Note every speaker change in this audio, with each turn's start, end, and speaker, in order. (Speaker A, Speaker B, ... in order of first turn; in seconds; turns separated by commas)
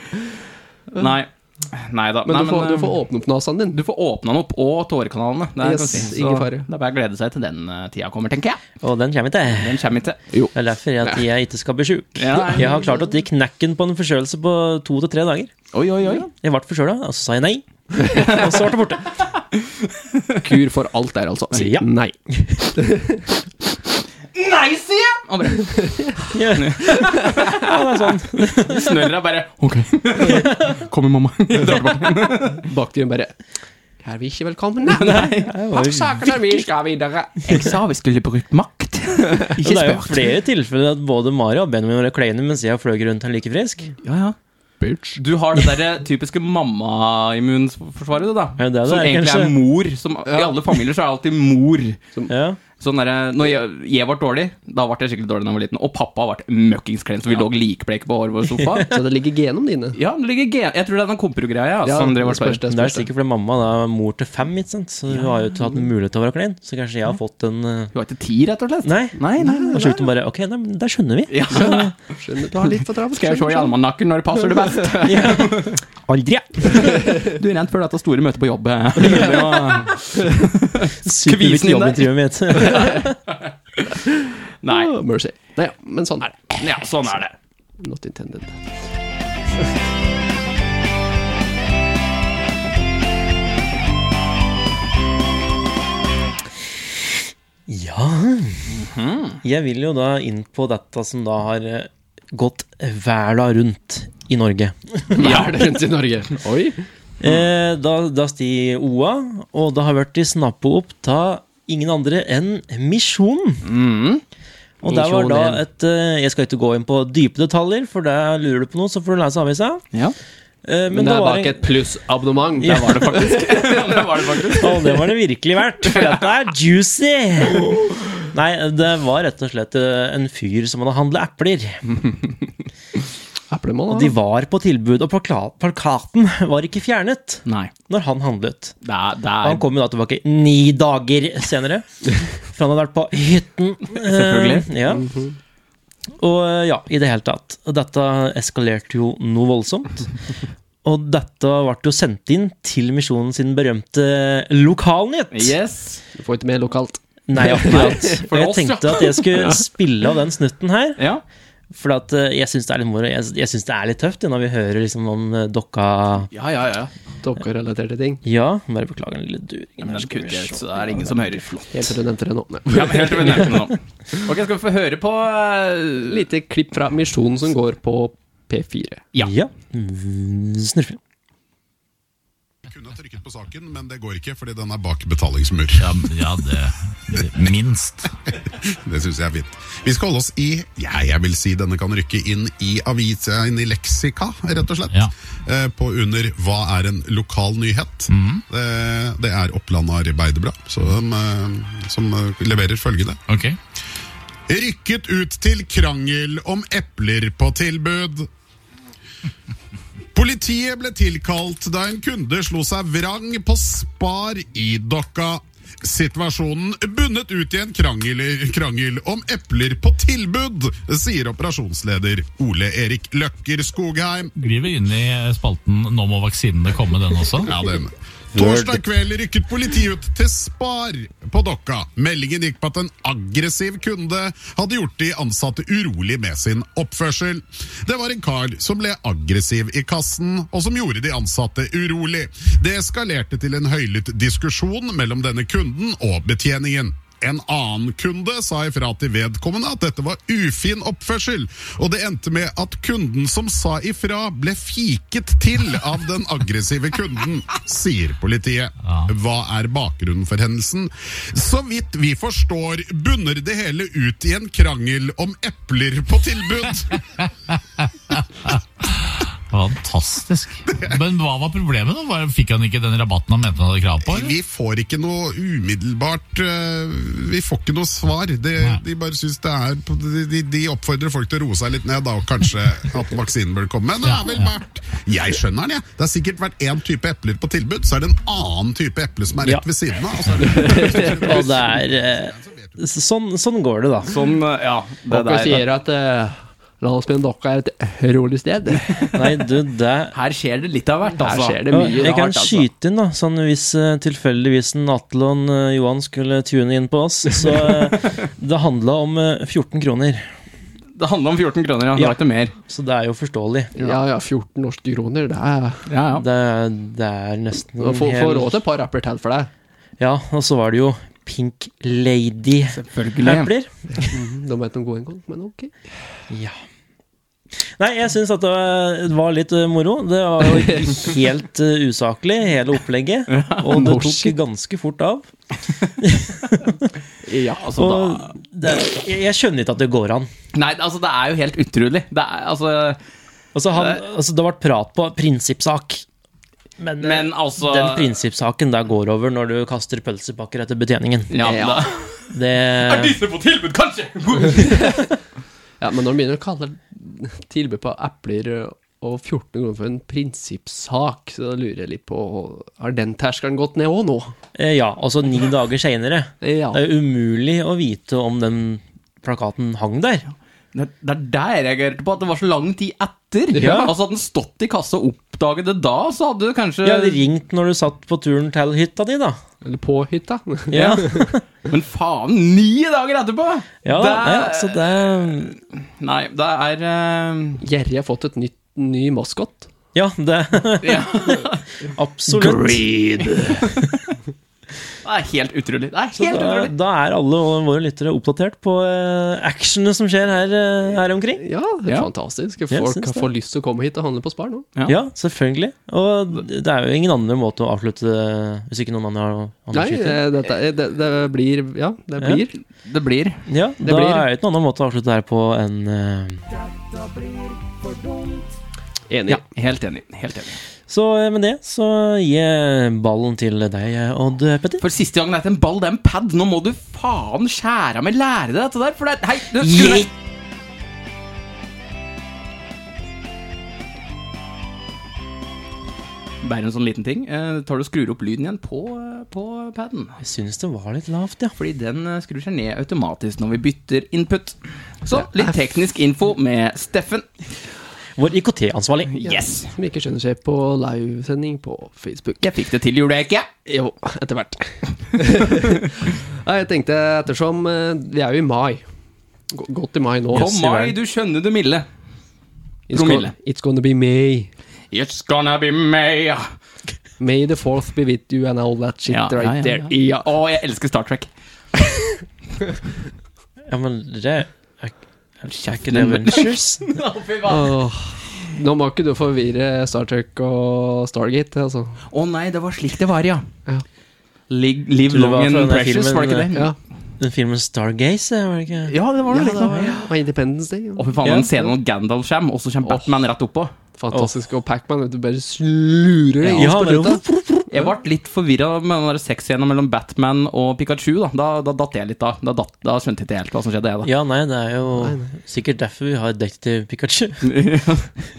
Speaker A: 0.9-3.0, Speaker B: 2.2-3.8, Speaker A: 3.7-8.6, Speaker B: 5.6-6.7, Speaker C: 8.8-9.8, Speaker A: 9.6-10.2, Speaker B: 10.3-11.2, Speaker C: 10.5-15.5, Speaker A: 12.2-12.9, Speaker B: 12.4-12.8, Speaker A: 15.7-16.3, Speaker C: 16.3-19.1, Speaker B: 18.0-18.3, Speaker B: 20.4-23.3, Speaker C: 21.5-21.9, Speaker A: 24.3-27.8, Speaker B: 25.8-26.1, Speaker C: 26.3-29.1, Speaker B: 27.0-27.5, Speaker A: 28.6-32.7, Speaker C: 30.2-30.8, Speaker B: 31.6-33.3, Speaker B: 34.0-37.6, Speaker A: 34.9-35.5, Speaker C: 35.0-36.6, Speaker A: 36.2-36.7, Speaker A: 37.4-40.3, Speaker C: 39.5-43.9, Speaker A: 44.0-44.3, Speaker B: 44.8-45.2, Speaker A: 45.1-52.0, Speaker C: 48.6-49.5, Speaker C: 52.3-52.6, Speaker A: 52.8-58.9, Speaker B: 58.8-60.0, Speaker A: 59.9-62.6, Speaker B: 61.8-63.1, Speaker C: 62.6-67.9, Speaker A: 67.9-70.0, Speaker C: 68.8-71.9, Speaker B: 69.4-69.9, Speaker A: 71.3-71.9, Speaker B: 71.5-73.7, Speaker A: 73.1-75.8, Speaker C: 75.0-77.0, Speaker A: 76.7-83.0, Speaker C: 79.0-79.5, Speaker C: 81.0-83.2, Speaker B: 84.1-86.6, Speaker A: 84.6-84.9, Speaker A: 86.6-87.3, Speaker B: 87.8-88.6, Speaker C: 97.7-98.7, Speaker A: 98.7-99.4, Speaker C: 99.4-105.5, Speaker B: 105.1-106.8, Speaker C: 107.2-113.6, Speaker A: 113.6-114.2, Speaker C: 114.8-119.8, Speaker A: 114.9-115.5, Speaker B: 114.9-115.5, Speaker C: 120.6-121.7, Speaker B: 120.9-124.8, Speaker C: 122.6-123.0, Speaker A: 122.6-124.7, Speaker C: 124.6-127.8, Speaker C: 128.3-132.0, Speaker B: 133.5-134.2, Speaker C: 133.9-138.8, Speaker A: 137.4-137.7, Speaker A: 138.8-139.7, Speaker C: 139.4-141.8, Speaker C: 142.3-145.1, Speaker A: 144.0-144.7, Speaker B: 144.9-145.3, Speaker C: 146.2-150.1, Speaker C: 150.8-155.5, Speaker A: 155.3-156.0, Speaker B: 156.1-158.2, Speaker C: 157.3-161.0, Speaker A: 158.1-159.2, Speaker A: 161.0-161.2, Speaker C: 161.7-166.3, Speaker A: 166.3-166.9, Speaker B: 167.2-168.2, Speaker C: 168.2-171.6, Speaker A: 169.8-171.7, Speaker B: 171.7-173.6, Speaker A: 172.7-176.2, Speaker B: 176.0-179.1, Speaker C: 179.2-181.0, Speaker D: 182.7-186.1, Speaker E: 185.8-188.1, Speaker D: 188.7-203.2, Speaker E: 198.1-198.4, Speaker E: 203.3-203.6, Speaker D: 204.5-208.3, Speaker D: 210.1-224.3, Speaker E: 224.4-227.5, Speaker D: 227.4-267.0, Speaker C: 228.3-228.8, Speaker E: 267.8-274.3, Speaker D: 270.7-271.0, Speaker D: 274.0-292.7, Speaker B: 290.4-291.3, Speaker C: 291.1-294.1, Speaker A: 294.0-295.6, Speaker B: 295.1-299.2, Speaker C: 299.1-300.1, Speaker A: 300.1-302.6, Speaker B: 301.1-302.2, Speaker C: 301.7-310.3, Speaker A: 311.0-312.5, Speaker C: 311.9-313.7, Speaker B: 313.7-315.8, Speaker A: 315.9-316.2, Speaker C: 316.1-318.6, Speaker B: 317.8-319.5, Speaker C: 320.0-324.1, Speaker A: 322.7-323.5, Speaker B: 324.0-325.7, Speaker C: 326.3-326.6, Speaker C: 327.6-335.3, Speaker B: 330.5-331.0, Speaker A: 333.3-333.9, Speaker B: 333.7-334.3, Speaker C: 336.0-336.9, Speaker A: 337.3-338.3, Speaker C: 337.8-340.3, Speaker A: 340.5-343.0, Speaker C: 343.5-346.0, Speaker C: 346.8-353.2, Speaker A: 347.0-348.1, Speaker A: 351.3-352.2, Speaker A: 352.8-354.9, Speaker B: 354.5-355.1, Speaker B: 355.8-364.3, Speaker C: 364.5-370.2, Speaker B: 366.4-366.8, Speaker A: 370.7-377.2, Speaker B: 373.5-373.9, Speaker C: 373.6-373.9, Speaker C: 376.8-379.4, Speaker B: 379.6-381.3, Speaker C: 380.7-381.4, Speaker A: 380.7-381.0, Speaker A: 381.7-387.6, Speaker C: 383.8-385.6, Speaker B: 387.6-389.7, Speaker C: 389.9-393.7, Speaker A: 390.8-391.6, Speaker A: 392.3-393.9, Speaker A: 395.0-396.7, Speaker C: 396.1-401.4, Speaker B: 401.4-404.7, Speaker C: 402.7-403.3, Speaker C: 404.9-410.2, Speaker B: 409.7-412.6, Speaker A: 412.8-413.4, Speaker C: 413.5-416.4, Speaker B: 413.8-414.2, Speaker B: 419.1-419.4, Speaker A: 419.3-420.6, Speaker C: 420.9-424.8, Speaker A: 424.8-430.1, Speaker C: 429.6-430.1, Speaker A: 436.4-440.2, Speaker C: 440.2-441.5, Speaker A: 441.6-447.3, Speaker C: 448.2-449.2, Speaker A: 449.1-449.7, Speaker B: 449.3-452.4, Speaker A: 452.4-453.5, Speaker B: 453.6-458.8, Speaker B: 459.5-460.5, Speaker C: 460.3-460.9, Speaker A: 460.3-461.8, Speaker B: 462.9-464.5, Speaker A: 462.9-463.3, Speaker A: 464.9-466.5, Speaker B: 467.2-470.2, Speaker A: 469.1-471.3, Speaker C: 473.7-476.9, Speaker A: 475.5-477.7, Speaker B: 477.4-482.0, Speaker A: 482.1-483.5, Speaker A: 484.5-486.7, Speaker C: 485.1-486.5, Speaker C: 487.2-488.9, Speaker A: 488.9-490.1, Speaker B: 489.3-491.7, Speaker A: 490.9-493.7, Speaker C: 491.2-491.5, Speaker B: 493.9-497.2, Speaker A: 496.4-496.7, Speaker C: 496.5-497.7, Speaker A: 497.7-504.1, Speaker C: 504.0-507.5, Speaker B: 505.0-505.2, Speaker A: 507.4-508.1